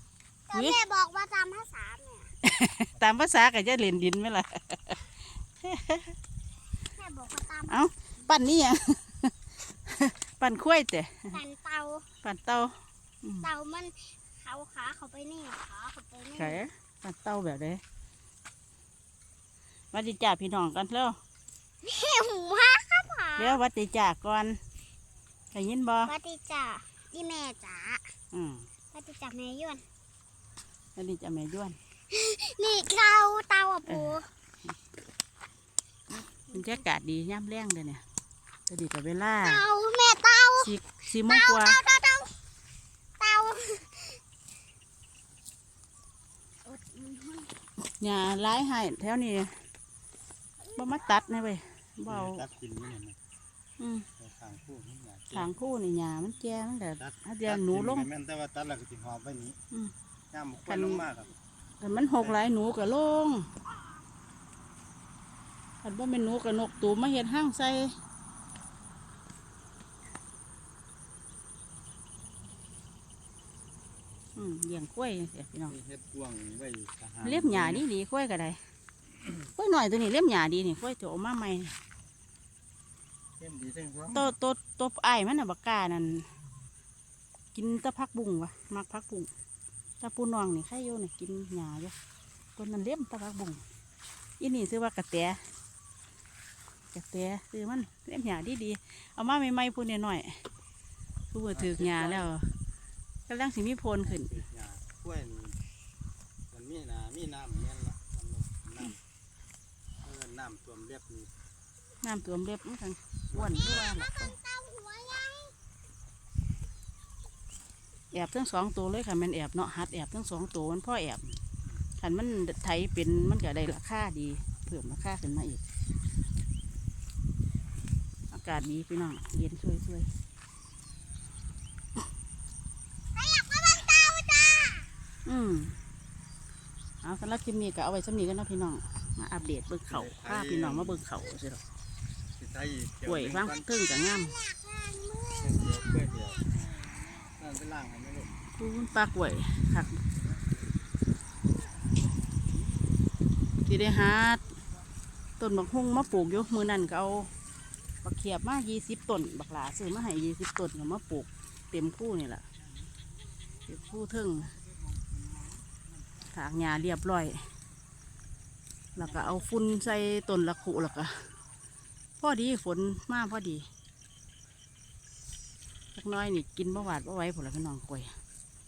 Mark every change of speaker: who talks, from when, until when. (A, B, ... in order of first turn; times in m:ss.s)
0:00.5-0:02.3 A
0:00.5-0:00.8 B
0:02.4-0:06.2 B
0:07.0-0:07.8 A
0:07.7-0:11.4 B
0:11.3-0:12.1 A
0:12.2-0:13.5 B
0:13.4-0:16.6 A
0:16.4-0:17.8 B
0:19.9-0:21.2 B
0:21.8-0:23.6 A
0:23.4-0:24.6 B
0:25.5-0:26.1 B
0:26.1-0:28.1 A
0:28.3-0:28.7 B
0:28.9-0:29.8 A
0:31.0-0:31.8 B
0:32.1-0:34.3 A
0:33.9-0:34.2 B
0:36.5-0:38.0 B
0:38.7-0:39.6 B
0:39.4-0:40.7 A
0:40.6-0:41.8 B
0:41.3-0:42.3 A
0:43.2-0:44.2 A
0:46.6-0:47.5 A
0:47.9-0:49.6 B
0:50.8-0:52.4 B
0:52.1-0:53.2 C
0:53.8-0:54.1 B
0:54.2-0:55.5 C
0:55.3-0:58.1 B
0:57.0-0:59.6 C
1:00.3-1:01.3 C
1:00.7-1:01.1 B
1:01.8-1:03.5 B
1:05.8-1:08.0 B
1:14.4-1:15.8 B
1:15.7-1:17.9 C
1:17.2-1:18.6 B
1:19.5-1:21.8 B
1:23.4-1:24.3 C
1:24.1-1:26.3 B
1:27.6-1:29.3 B
1:30.0-1:32.0 B
1:32.6-1:33.6 B
1:34.4-1:35.4 B
1:36.9-1:40.4 B
1:41.3-1:42.5 B
1:41.5-1:42.4 C
1:43.3-1:44.3 B
1:44.1-1:45.6 C
1:46.5-1:49.0 C
1:50.0-1:51.3 C
1:52.0-1:54.4 B
1:53.4-1:55.5 A
1:58.1-2:01.4 B
2:02.0-2:05.6 B
2:08.3-2:10.1 B
2:13.2-2:14.9 A
2:15.2-2:15.8 B
2:17.0-2:21.6 B
2:19.9-2:21.0 C
2:22.4-2:23.7 C
2:23.0-2:24.4 B
2:24.1-2:27.1 A
2:25.4-2:26.5 C
2:27.3-2:28.4 C
2:28.5-2:30.0 B
2:33.7-2:34.5 B
2:35.4-2:37.3 B
2:38.0-2:42.5 B
2:43.7-2:44.6 B
2:46.3-2:47.4 B
2:49.0-2:51.3 B
2:52.2-2:53.7 B
2:56.0-2:58.1 B